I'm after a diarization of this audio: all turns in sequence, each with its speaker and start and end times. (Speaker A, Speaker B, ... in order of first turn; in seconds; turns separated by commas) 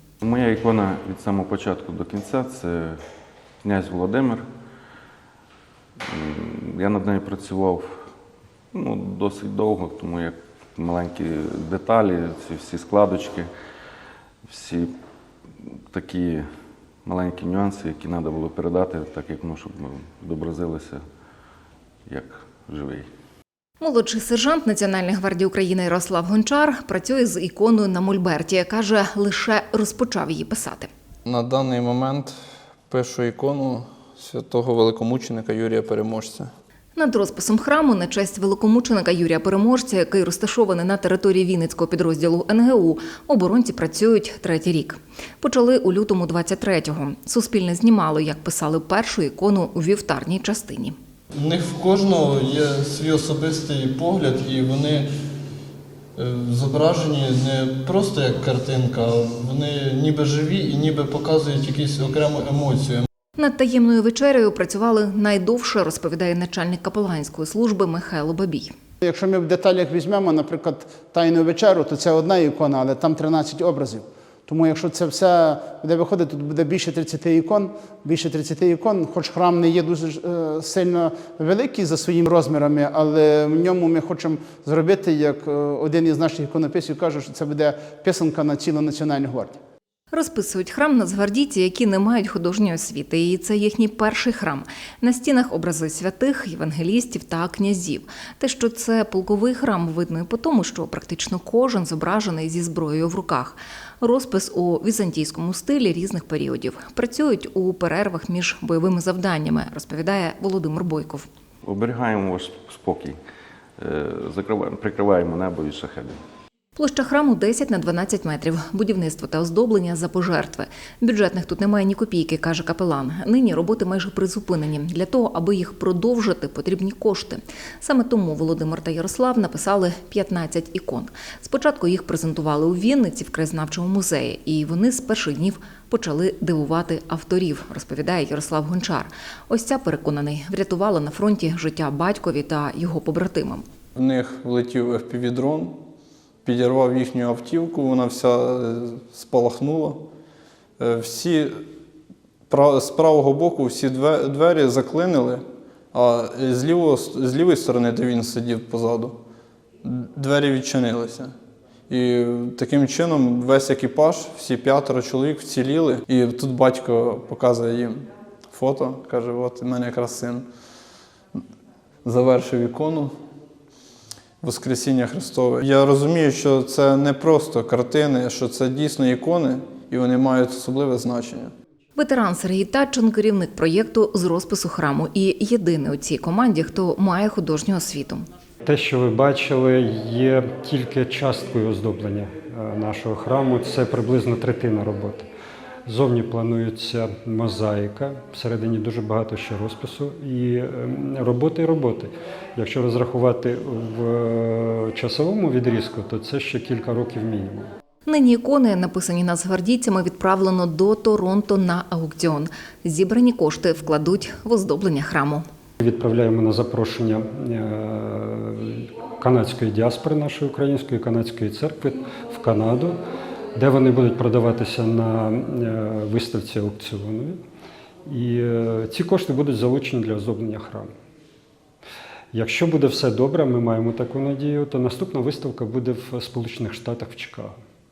Speaker A: 0.2-3.0, Speaker A: 3.6-4.5, Speaker A: 6.1-8.1, Speaker A: 8.7-13.5, Speaker A: 14.4-14.9, Speaker A: 15.6-16.5, Speaker A: 17.1-21.0, Speaker A: 22.1-23.1, Speaker B: 23.8-30.9, Speaker C: 31.3-32.3, Speaker C: 32.9-36.5, Speaker B: 37.0-51.0, Speaker C: 51.3-55.1, Speaker C: 56.2-63.1, Speaker B: 63.4-68.7, Speaker D: 69.0-89.5, Speaker B: 90.1-111.3, Speaker A: 111.6-113.2, Speaker A: 113.8-116.2, Speaker B: 116.8-143.7, Speaker C: 144.0-145.8, Speaker C: 146.4-150.0, Speaker C: 150.8-151.6, Speaker C: 152.5-159.2, Speaker C: 159.8-161.3, Speaker C: 161.9-170.5, Speaker C: 172.1-173.1, Speaker C: 174.4-181.5, Speaker B: 182.0-188.2, Speaker E: 188.7-195.2, Speaker E: 195.9-207.7, Speaker B: 208.1-215.4, Speaker E: 215.8-223.0, Speaker E: 223.6-227.4, Speaker E: 228.1-230.9, Speaker E: 232.3-237.6